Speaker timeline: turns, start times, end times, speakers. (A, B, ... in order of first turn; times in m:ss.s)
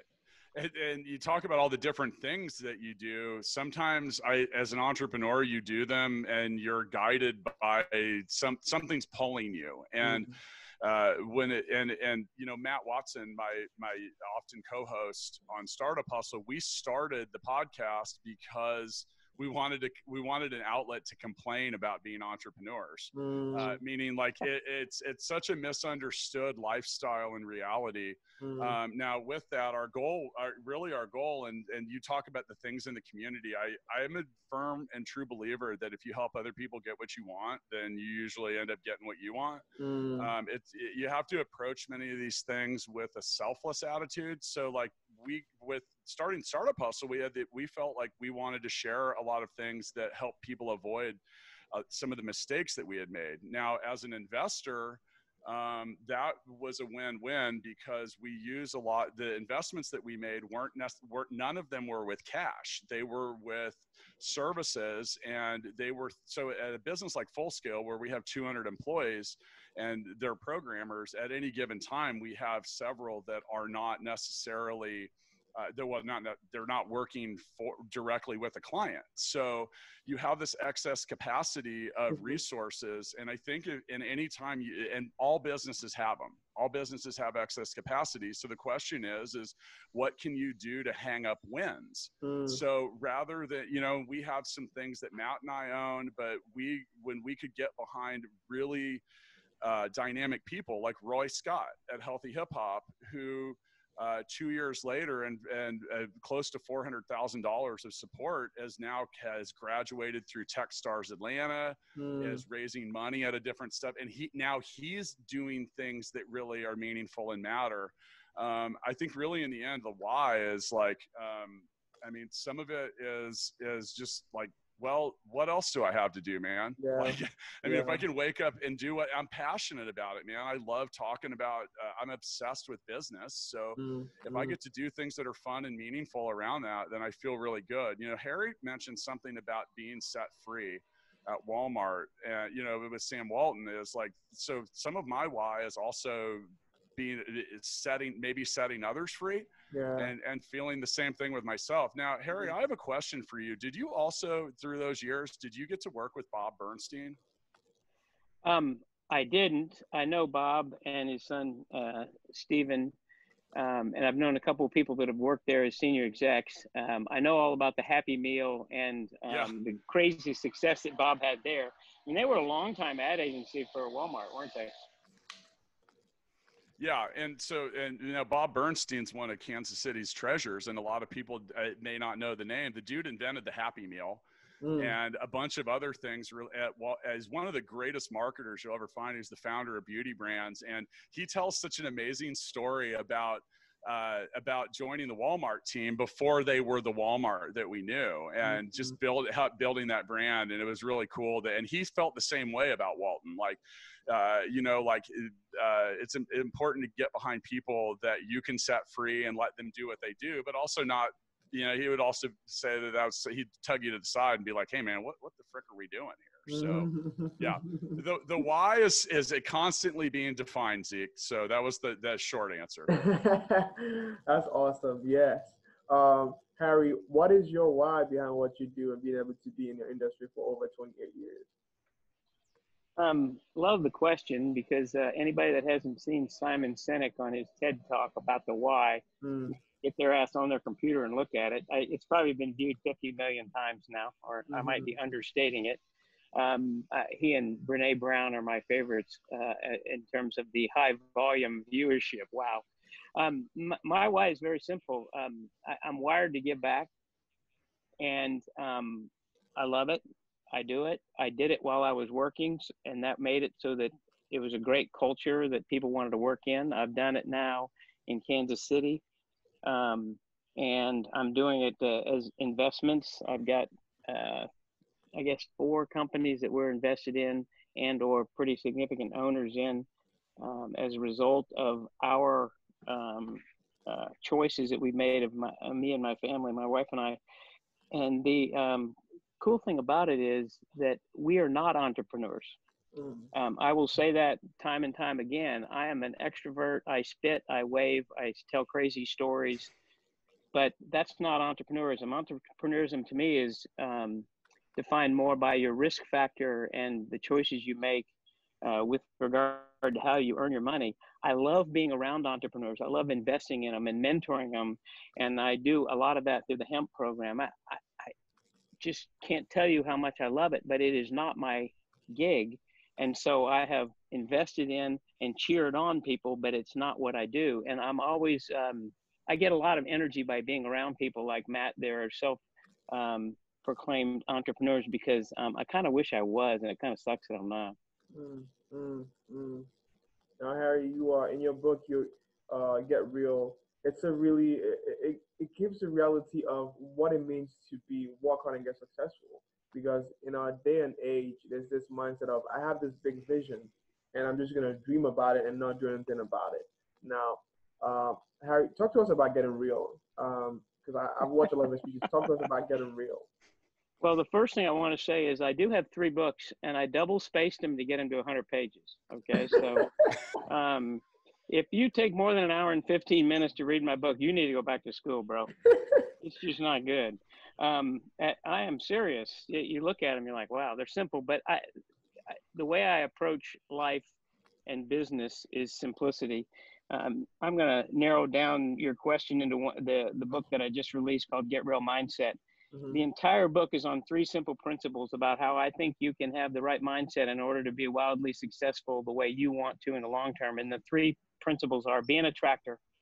0:00.5-0:39.6 A
0:10.0-0:10.3 B
0:23.1-0:23.8 B
0:28.4-0:28.8 B
0:39.8-0:40.3 B
0:40.2-0:51.2 A
0:51.7-1:39.0 A
1:32.2-1:32.6 B
1:39.6-2:37.2 A
1:52.0-1:52.4 B
2:06.8-2:08.0 B
2:13.8-2:14.6 B
2:29.7-2:30.1 B
2:38.4-2:42.9 C
2:43.5-2:54.7 C
2:56.8-3:04.2 A
3:04.6-3:05.0 B
3:04.8-3:42.9 A
3:18.4-3:19.0 B
3:36.5-3:38.0 B
3:42.9-3:51.5 B
3:53.0-3:59.0 C
3:59.2-3:59.6 B
3:59.6-4:05.8 C
4:04.5-4:04.9 B
4:06.3-4:12.6 C
4:13.2-4:16.9 C
4:18.0-4:20.0 C
4:20.5-4:29.0 C
4:29.6-4:34.5 C
4:35.1-4:39.8 C
4:40.4-4:47.2 C
4:47.9-4:52.6 C
4:52.9-4:53.3 B
4:53.3-4:59.7 C
5:00.5-5:08.1 C
5:08.6-5:18.1 C
5:18.8-5:37.8 C
5:38.1-5:39.7 B
5:40.4-6:03.3 B
6:04.0-6:09.9 C
6:10.4-6:15.5 C
6:16.2-6:21.6 C
6:22.3-6:24.1 C
6:24.7-6:32.4 C
6:32.7-6:33.0 B
6:32.9-6:42.8 C